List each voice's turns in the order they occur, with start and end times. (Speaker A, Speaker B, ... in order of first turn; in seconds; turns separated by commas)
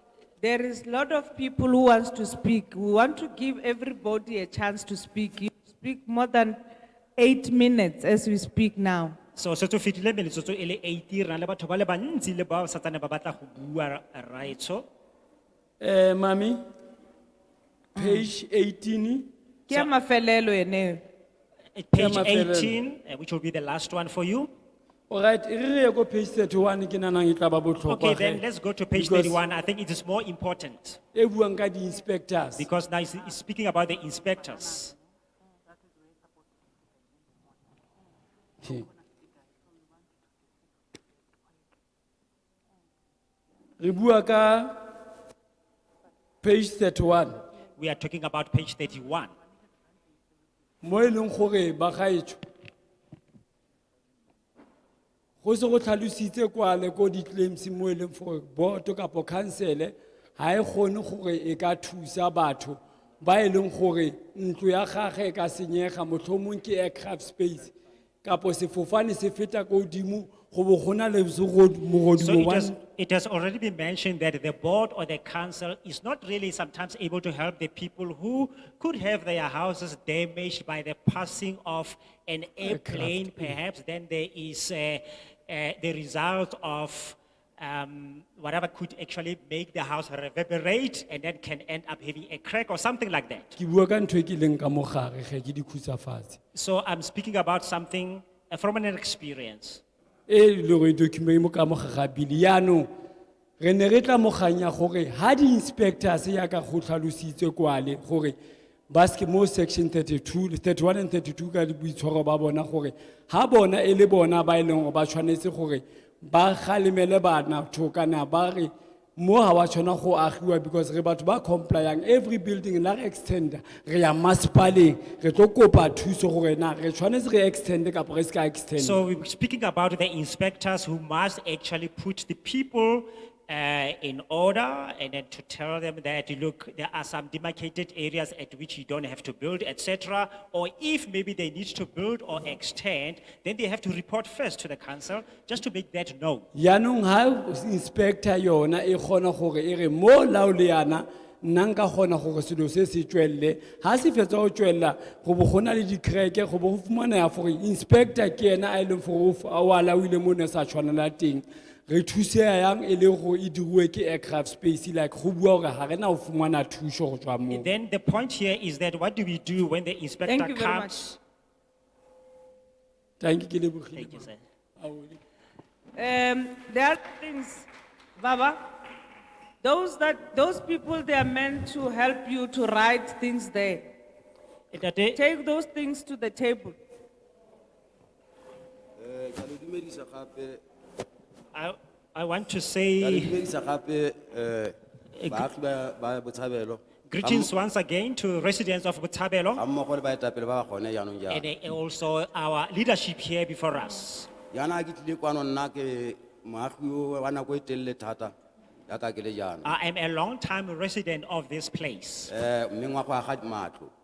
Speaker A: 0.4-6.6, Speaker A: 7.2-9.2, Speaker B: 9.4-14.9, Speaker C: 15.8-16.6, Speaker A: 18.0-18.3, Speaker C: 18.0-19.3, Speaker A: 19.7-21.0, Speaker B: 21.8-24.5, Speaker C: 21.9-22.8, Speaker C: 25.1-29.4, Speaker B: 27.9-31.0, Speaker C: 31.1-32.7, Speaker B: 32.6-35.0, Speaker C: 43.8-44.8, Speaker C: 46.4-47.4, Speaker B: 47.8-49.3, Speaker C: 50.8-52.4, Speaker C: 55.4-72.8, Speaker B: 72.2-93.5, Speaker C: 82.6-83.5, Speaker C: 93.6-96.4, Speaker B: 96.5-99.8, Speaker C: 100.3-102.9, Speaker C: 103.6-108.4, Speaker C: 108.9-129.0, Speaker B: 128.8-146.5, Speaker C: 146.5-167.7, Speaker B: 167.5-171.0, Speaker A: 170.3-171.2, Speaker C: 173.2-174.3, Speaker B: 174.0-174.4, Speaker C: 174.8-175.2, Speaker A: 176.0-177.7, Speaker A: 178.2-178.6, Speaker A: 179.6-183.9, Speaker B: 184.7-185.2, Speaker A: 185.2-186.8, Speaker D: 189.0-190.6, Speaker B: 191.5-193.4, Speaker D: 193.0-197.5, Speaker B: 195.2-195.5, Speaker B: 197.1-199.6, Speaker D: 199.6-201.4, Speaker B: 201.3-204.3, Speaker D: 204.5-208.3, Speaker D: 208.9-209.7, Speaker B: 209.6-212.3, Speaker D: 212.3-213.9